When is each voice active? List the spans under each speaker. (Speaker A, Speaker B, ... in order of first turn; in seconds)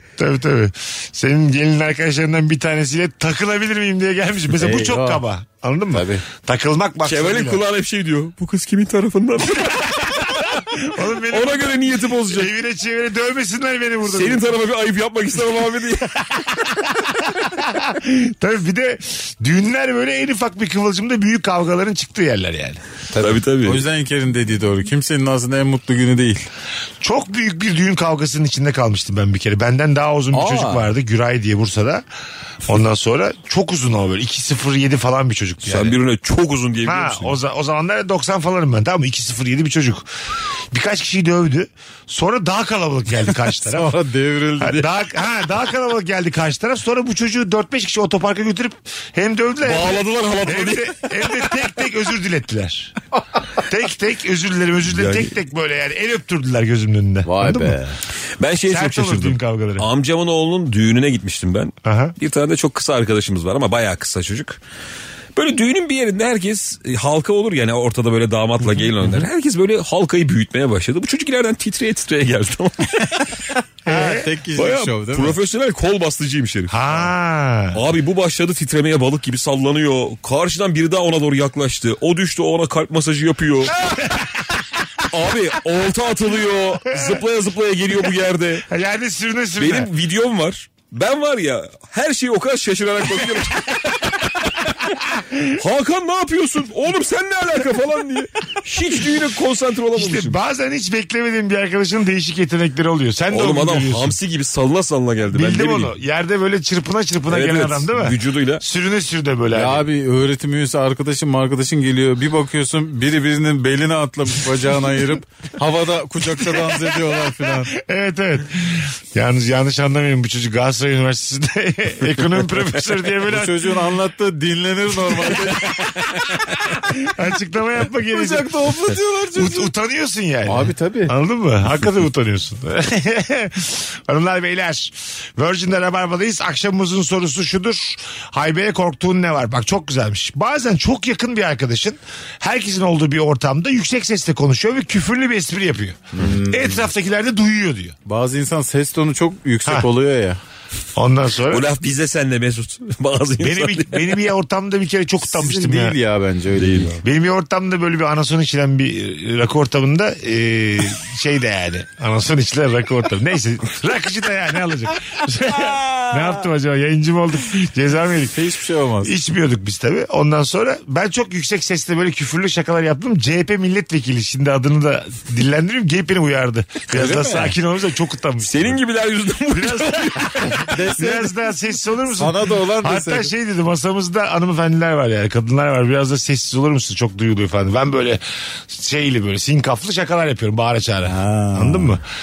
Speaker A: 0.2-7.6, 9.6-14.5, 16.2-22.8, 27.0-32.0, 32.6-36.0, 36.8-40.1, 40.7-43.9, 44.6-52.9, 53.6-57.8, 58.7-59.9, 61.8-62.1, 73.9-74.2, 76.7-77.8, 83.9-84.6, 86.9-87.2, 88.7-89.9, 95.1-95.5, 99.9-104.1, 105.3-109.9, 116.5-123.8, 125.1-147.9, 150.9-151.7, 153.4-155.9, 157.0-168.3, 169.0-178.8, 179.5-192.0
Speaker B: 4.6-5.2, 5.9-6.2, 23.1-26.5, 30.3-30.9, 43.6-44.9, 57.2-58.0, 73.8-75.4, 109.5-117.7, 123.3-126.8, 128.1-129.7, 130.4-131.1, 146.1-146.8, 148.1-150.4, 155.2-157.0, 168.3-169.1, 176.9-177.6, 180.7-181.3, 182.1-183.3, 191.0-192.0
Speaker C: 7.0-10.6, 11.3-12.5, 14.0-16.1, 23.2-23.8, 35.6-37.4, 49.6-51.3, 54.8-55.3, 58.4-64.6, 65.3-73.2, 74.5-77.1, 77.7-84.1, 85.1-88.7, 89.6-94.7, 95.5-100.4, 103.3-105.9, 107.3-108.6, 151.5-154.2, 156.6-157.0, 178.4-180.7